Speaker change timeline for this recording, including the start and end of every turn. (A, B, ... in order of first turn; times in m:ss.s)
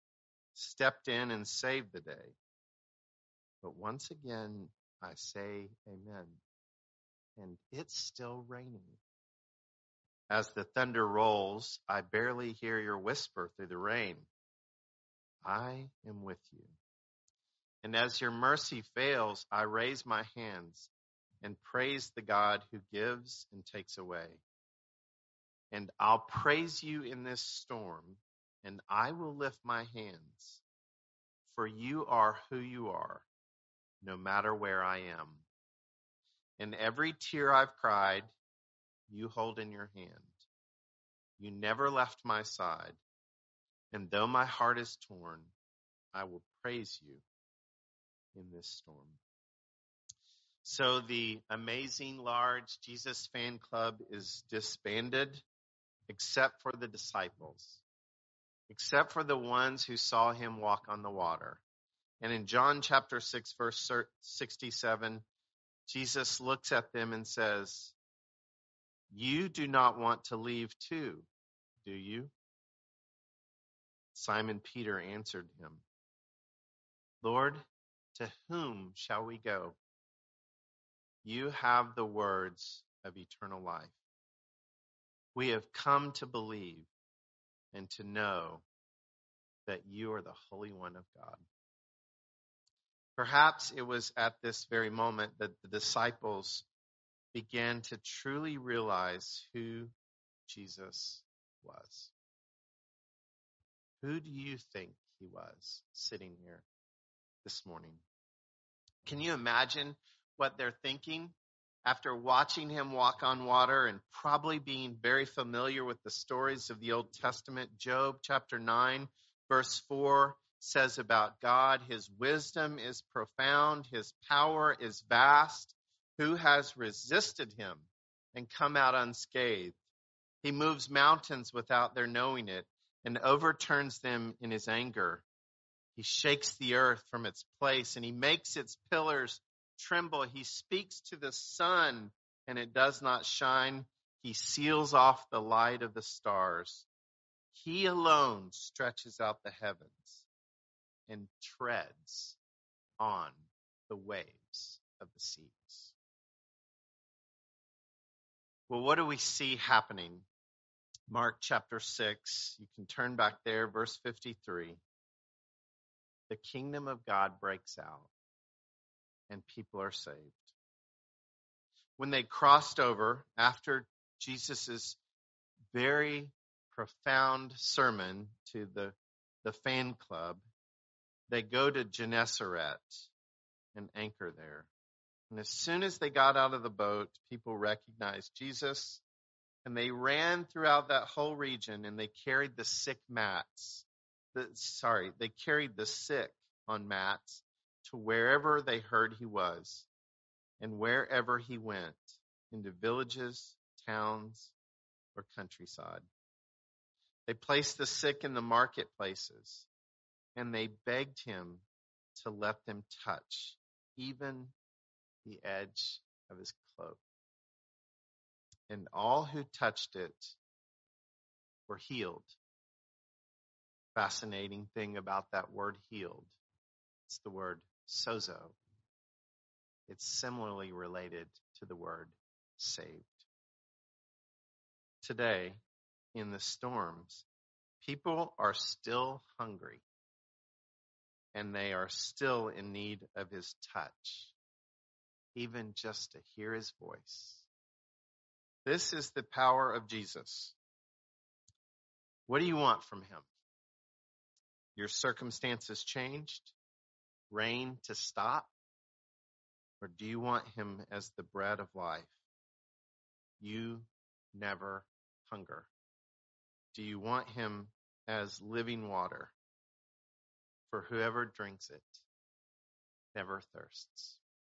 0:00.6-0:02.4 A
0:03.6-0:06.4 A
0:07.4-0:09.0 A
0:10.3-0:14.3 A
0:15.4-0:16.8 A
0:17.8-0:20.9 A
0:21.4-0:24.4 A
0:25.7-0:30.6 A
0:31.5-0:33.3 A
0:34.0-0:35.4 A
0:36.6-0:38.3 A
0:39.1-0:40.4 A
0:41.4-0:43.0 A
0:43.9-0:45.5 A
0:46.1-0:47.2 A
0:48.3-0:49.2 A
0:50.6-0:55.4 A
0:56.1-0:57.8 A
0:58.7-1:01.6 A
1:02.2-1:05.2 A
1:05.9-1:08.0 A
1:09.1-1:11.3 A
1:11.8-1:12.3 A
1:14.1-1:15.8 A
1:17.2-1:17.6 A
1:18.2-1:19.8 A
1:21.2-1:24.0 A
1:25.3-1:26.9 A
1:27.7-1:28.6 A
1:29.7-1:31.4 A
1:33.2-1:36.7 A
1:37.3-1:39.9 A
1:40.5-1:42.1 A
1:44.0-1:46.6 A
1:47.4-1:48.0 A
1:49.1-1:51.3 A
1:51.8-2:09.8 A
2:10.4-2:15.2 A
2:16.0-2:26.9 A
2:27.5-2:30.3 A
2:31.1-2:32.4 A
2:33.0-2:36.0 A
2:38.7-2:40.3 A
2:41.1-2:44.8 A
2:46.3-2:48.1 A
2:49.3-2:50.5 A
2:52.0-2:55.0 A
2:55.7-3:00.4 A
3:01.3-3:03.1 A
3:03.7-3:04.7 A
3:05.3-3:09.0 A
3:09.6-3:19.9 A
3:20.6-3:24.5 A
3:25.2-3:26.1 A
3:27.3-3:29.7 A
3:30.4-3:31.6 A
3:32.2-3:34.5 A
3:35.2-3:37.0 A
3:38.7-3:40.4 A
3:41.7-3:42.4 A
3:44.0-3:46.3 A
3:47.1-3:48.6 A
3:49.9-3:53.3 A
3:55.0-3:55.6 A
3:56.1-3:57.2 A
3:57.8-3:59.8 A
4:01.3-4:04.3 A
4:05.4-4:07.5 A
4:08.6-4:10.6 A
4:12.3-4:13.3 A
4:14.8-4:16.5 A
4:17.3-4:18.5 A
4:19.8-4:22.1 A
4:23.4-4:25.7 A
4:26.7-4:29.3 A
4:30.7-4:32.0 A
4:33.1-4:34.2 A